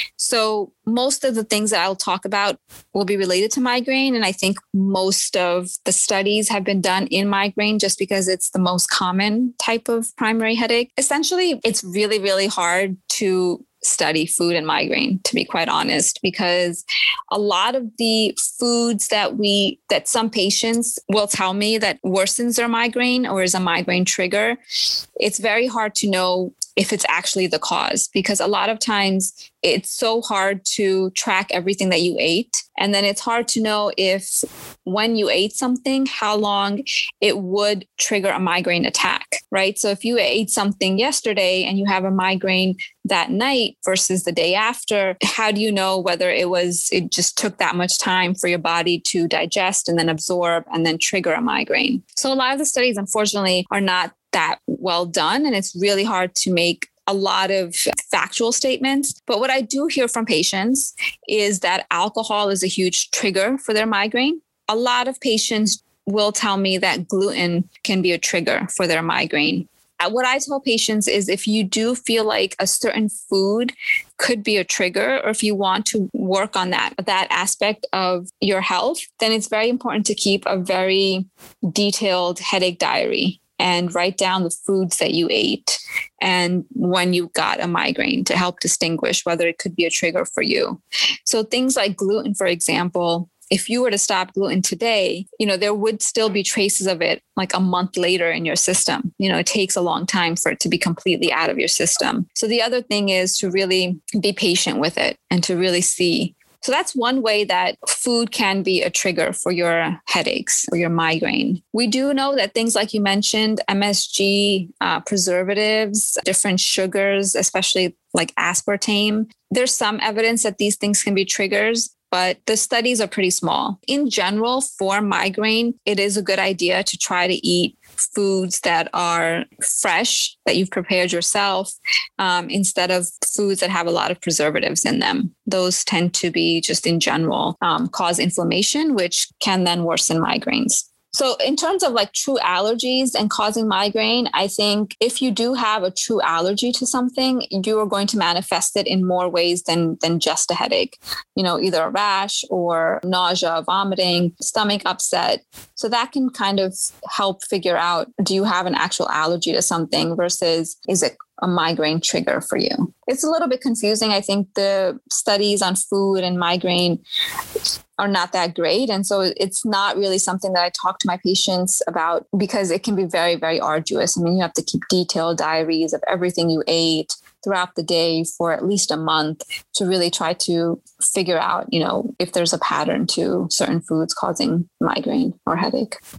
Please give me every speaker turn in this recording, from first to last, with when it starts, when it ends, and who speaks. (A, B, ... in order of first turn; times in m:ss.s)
0:00.2-0:24.6 A
0:25.2-2:47.0 A
2:48.0-3:06.0 A